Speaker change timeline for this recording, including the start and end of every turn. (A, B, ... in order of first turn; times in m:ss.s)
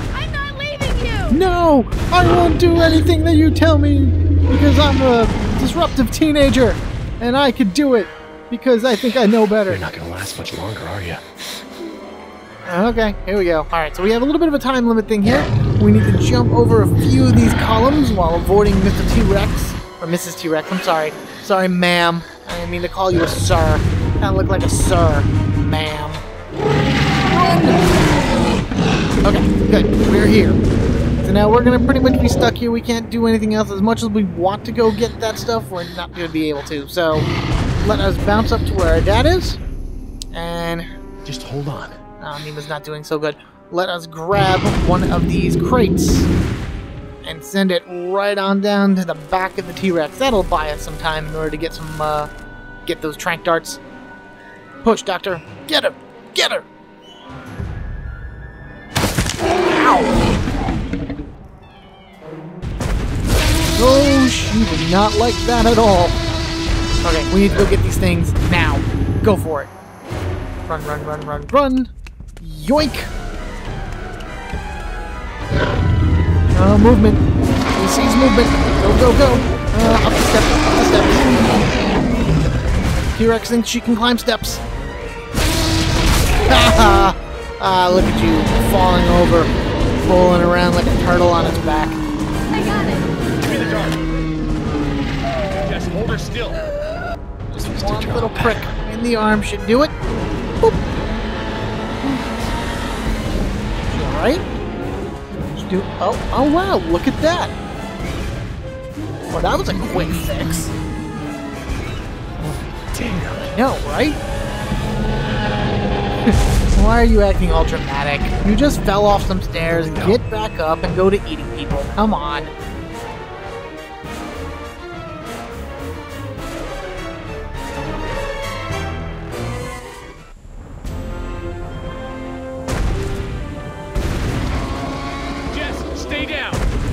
0:00.1-0:01.4 A
0:01.3-0:09.8 B
0:09.6-0:11.2 C
0:12.6-0:26.2 B
0:27.2-0:27.9 B
0:29.2-0:30.6 B
0:31.2-0:37.3 B
0:37.8-0:39.6 B
0:40.3-0:40.9 B
0:41.2-0:42.0 C
0:42.2-0:46.3 B
0:47.2-0:52.3 B
0:52.8-0:53.8 B
0:54.8-0:56.6 B
0:59.7-1:00.2 B
1:03.8-1:06.2 B
1:07.0-1:09.7 B
1:10.6-1:13.1 B
1:16.5-1:17.2 B
1:17.7-1:21.4 B
1:23.1-1:24.6 B
1:26.5-1:29.5 B
1:30.0-1:32.0 B
1:32.5-1:33.0 A
1:33.4-1:34.0 C
1:35.5-1:36.6 C
1:37.5-1:38.7 C
1:37.6-1:39.9 B
1:43.9-1:44.4 B
1:45.5-1:47.5 B
1:49.3-1:50.7 B
1:52.4-1:53.5 C
1:53.5-1:54.2 B
1:56.3-2:02.5 B
1:59.6-2:00.2 C
2:15.5-2:16.6 C